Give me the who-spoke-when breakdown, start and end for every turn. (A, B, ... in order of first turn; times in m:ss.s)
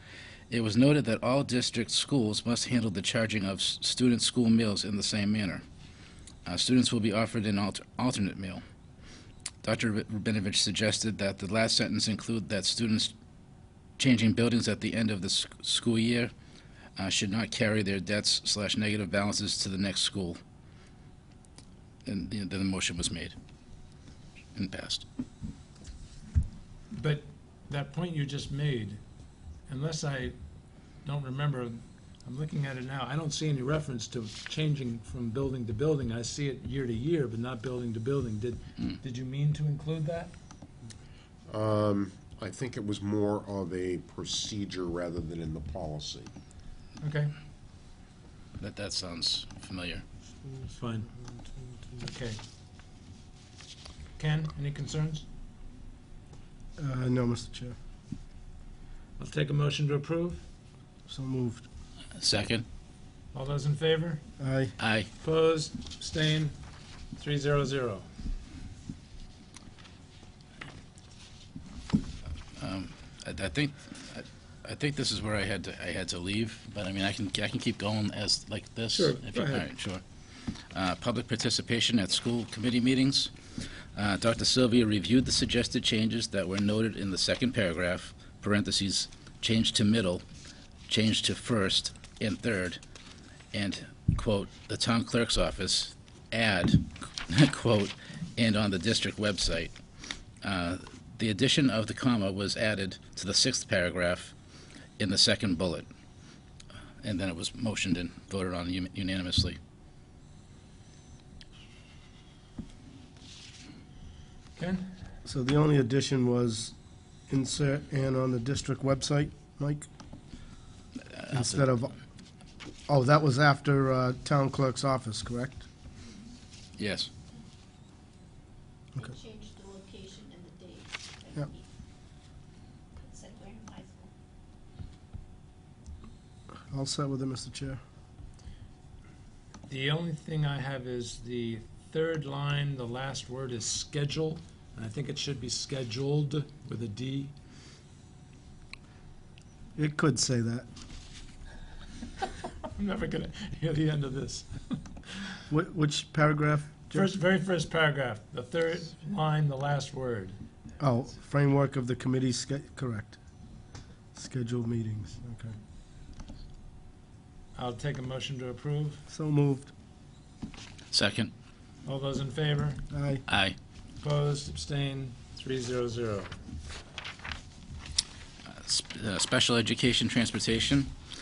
0:00.5-0:05.6 A
0:06.4-0:08.6 A
0:09.6-0:13.1 A
0:14.0-0:16.3 A
0:17.0-0:20.4 A
0:22.0-0:23.3 A
0:24.5-0:25.0 A
0:26.9-0:29.0 B
0:29.6-0:30.4 B
0:31.0-0:40.3 B
0:41.5-0:46.3 C
0:47.0-0:47.3 B
0:48.6-0:50.0 A
0:50.4-0:51.6 D
0:50.8-0:51.1 B
0:52.0-0:52.4 B
0:54.2-0:55.2 B
0:56.8-0:57.8 D
0:59.2-1:00.4 B
1:01.1-1:01.6 D
1:02.2-1:02.6 A
1:03.3-1:04.2 B
1:04.4-1:04.7 D
1:04.8-1:05.1 A
1:05.2-1:06.5 B
1:07.2-1:08.1 B
1:12.6-1:23.3 A
1:18.9-1:19.6 B
1:23.9-1:30.2 A
1:30.9-1:32.8 A
1:33.5-1:39.8 A
1:40.4-1:44.3 A
1:45.0-1:45.9 A
1:47.0-1:49.6 A
1:54.6-1:54.9 B
1:55.2-1:56.7 D
1:57.3-1:59.8 D
2:01.2-2:01.6 A
2:01.3-2:01.9 D
2:02.9-2:05.6 D
2:06.8-2:07.1 A
2:09.0-2:11.7 E
2:13.0-2:14.1 E
2:16.7-2:17.8 D
2:19.7-2:27.3 B
2:29.8-2:30.7 D
2:32.7-2:34.8 B
2:35.5-2:37.1 D
2:36.9-2:40.4 B
2:40.8-2:43.2 D
2:44.1-2:45.5 D
2:47.5-2:49.0 B
2:49.1-2:49.7 D
2:50.9-2:51.3 A
2:51.8-2:52.8 B
2:52.9-2:53.2 D
2:53.3-2:53.6 A
2:54.0-2:56.3 B
2:58.4-3:00.9 A